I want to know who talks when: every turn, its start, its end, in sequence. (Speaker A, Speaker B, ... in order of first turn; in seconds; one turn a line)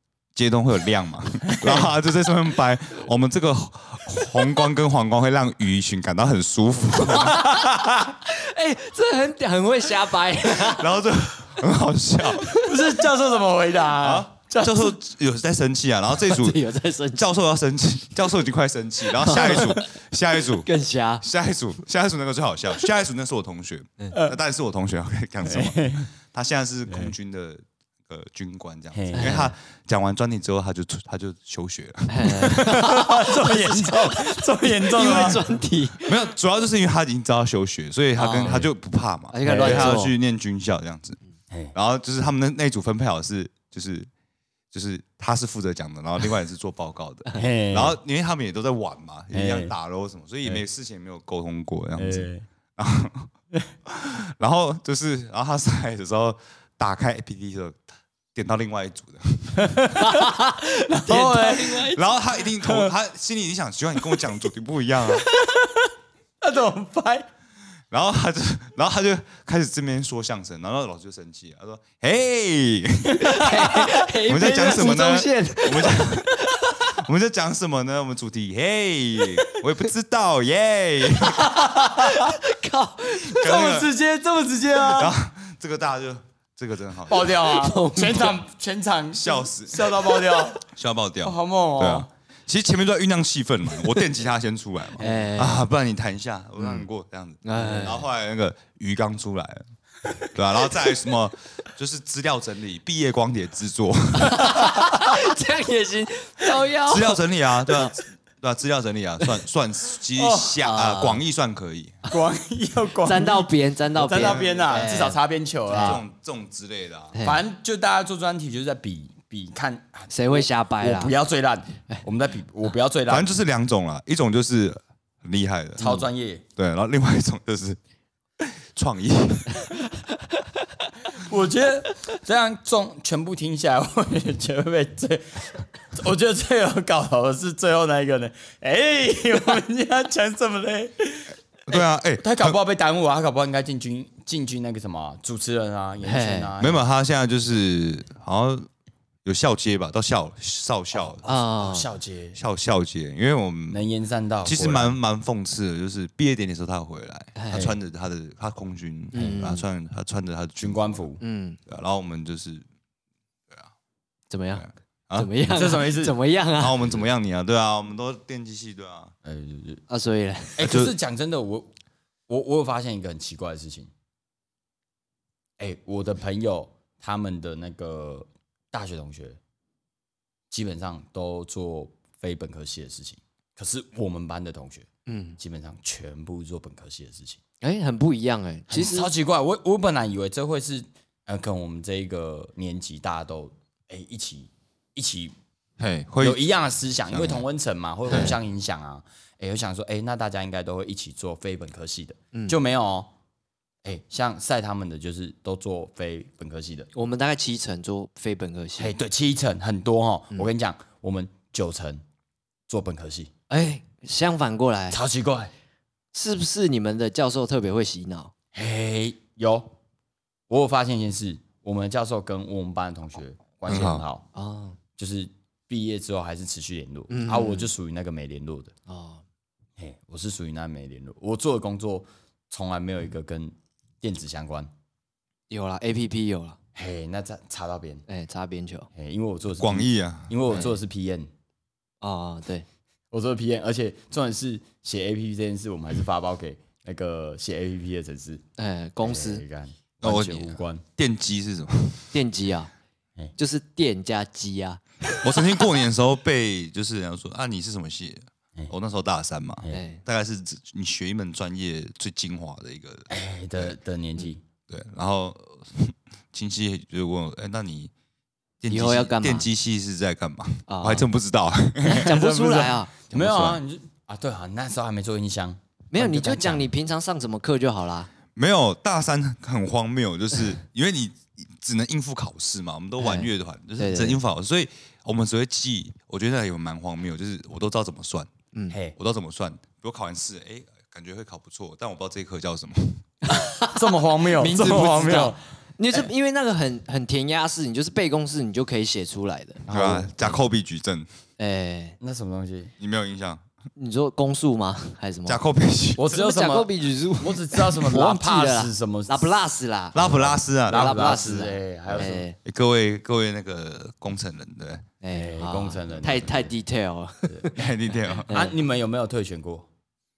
Speaker A: 0.3-7.4
Speaker B: 7.1-10.9
Speaker C: 7.3-8.1
Speaker A: 10.4-12.8
Speaker C: 12.5-14.9
Speaker A: 14.0-20.7
Speaker B: 16.2-17.2
Speaker B: 19.2-19.8
Speaker B: 20.6-21.2
Speaker A: 21.2-32.7
Speaker C: 25.4-26.1
Speaker C: 26.9-27.1
Speaker C: 28.9-29.4
Speaker B: 29.1-29.5
Speaker B: 32.1-36.1
Speaker C: 32.3-35.5
Speaker A: 35.0-35.4
Speaker A: 36.0-41.2
Speaker B: 38.2-38.7
Speaker B: 39.3-40.1
Speaker C: 39.5-40.0
Speaker A: 41.7-44.1
Speaker A: 44.7-53.3
Speaker C: 47.3-48.0
Speaker C: 49.3-49.7
Speaker C: 52.0-52.5
Speaker A: 53.9-57.8
Speaker A: 58.4-59.9
Speaker C: 59.6-60.3
Speaker B: 60.0-62.0
Speaker C: 60.9-62.0
Speaker A: 61.1-65.3
Speaker C: 62.6-62.9
Speaker C: 65.3-65.9
Speaker C: 66.4-67.3
Speaker A: 67.9-81.5
Speaker C: 73.1-73.5
Speaker B: 73.2-77.0
Speaker B: 81.2-83.5
Speaker C: 81.4-82.4
Speaker A: 83.2-83.9
Speaker C: 83.3-85.1
Speaker A: 84.8-87.4
Speaker C: 87.1-90.6
Speaker B: 87.5-88.4
Speaker A: 89.1-99.6
Speaker C: 91.2-92.1
Speaker C: 95.0-95.3
Speaker B: 95.0-95.7
Speaker B: 97.5-98.1
Speaker A: 100.2-104.6
Speaker B: 104.2-107.9
Speaker C: 104.6-105.0
Speaker A: 106.9-112.0
Speaker C: 110.2-110.6
Speaker B: 110.6-111.2
Speaker C: 112.1-116.0
Speaker B: 113.0-115.2
Speaker A: 114.2-114.7
Speaker B: 115.7-116.0
Speaker A: 115.7-117.2
Speaker B: 117.2-117.4
Speaker C: 117.2-123.4
Speaker B: 120.1-121.1
Speaker A: 123.1-125.8
Speaker C: 125.8-126.4
Speaker A: 126.6-127.8
Speaker A: 128.4-129.6
Speaker C: 131.1-146.8
Speaker A: 141.7-142.6
Speaker B: 146.0-146.5
Speaker A: 146.6-148.7
Speaker A: 149.2-151.2
Speaker C: 150.9-152.4
Speaker B: 151.3-151.9
Speaker A: 152.3-153.8
Speaker C: 153.7-155.0
Speaker A: 154.4-161.1
Speaker B: 157.4-157.7
Speaker B: 159.1-159.6
Speaker C: 160.6-161.2
Speaker B: 161.2-161.6
Speaker A: 161.7-162.7
Speaker B: 164.3-164.6
Speaker A: 164.6-165.3
Speaker B: 165.2-166.8
Speaker C: 165.5-166.2
Speaker A: 166.6-169.1
Speaker C: 169.2-169.8
Speaker B: 169.9-170.6
Speaker C: 170.6-171.7
Speaker A: 170.6-170.9
Speaker C: 172.3-173.9
Speaker C: 175.6-179.4
Speaker C: 180.5-187.4
Speaker B: 185.1-185.4
Speaker B: 187.6-189.1
Speaker C: 188.7-195.3
Speaker A: 195.8-196.4
Speaker C: 196.2-203.1
Speaker A: 197.1-197.4
Speaker B: 198.1-198.3
Speaker C: 203.8-206.9
Speaker B: 206.9-208.9
Speaker C: 208.8-212.0
Speaker C: 212.7-213.3
Speaker B: 213.5-215.0
Speaker C: 214.9-215.5
Speaker B: 216.1-218.3
Speaker C: 218.5-219.7
Speaker C: 220.5-224.3
Speaker A: 223.7-224.0
Speaker B: 224.3-224.8
Speaker C: 225.0-228.7
Speaker B: 227.1-227.7
Speaker B: 228.9-229.2
Speaker C: 229.8-234.7
Speaker B: 235.5-236.6
Speaker C: 236.8-238.0
Speaker B: 238.1-238.9
Speaker C: 238.9-241.3
Speaker A: 239.6-240.3
Speaker B: 242.0-242.7
Speaker C: 243.1-248.4
Speaker B: 248.6-249.4
Speaker C: 249.0-250.8
Speaker A: 250.0-252.2
Speaker B: 252.1-252.7
Speaker B: 253.4-255.5
Speaker A: 255.2-263.7
Speaker B: 259.7-260.0
Speaker C: 263.1-264.4
Speaker A: 264.7-267.9
Speaker A: 268.6-272.1
Speaker B: 268.7-269.5
Speaker B: 270.7-271.1
Speaker C: 271.8-276.7
Speaker B: 271.9-272.9
Speaker A: 273.1-273.6
Speaker B: 275.9-278.1
Speaker A: 278.3-288.3
Speaker B: 283.0-284.2
Speaker C: 288.7-289.0
Speaker A: 289.0-293.1
Speaker B: 293.2-299.7
Speaker C: 293.7-295.4
Speaker C: 299.7-300.1
Speaker A: 299.7-301.1
Speaker B: 301.4-302.0
Speaker C: 302.0-302.7
Speaker A: 302.8-303.4
Speaker B: 303.8-305.4
Speaker A: 305.3-306.0
Speaker C: 306.0-309.4
Speaker B: 306.1-312.4
Speaker A: 309.9-311.2
Speaker C: 310.0-312.3
Speaker A: 312.0-314.9
Speaker B: 315.0-318.5
Speaker C: 315.1-316.5
Speaker A: 317.5-318.3
Speaker C: 318.3-319.7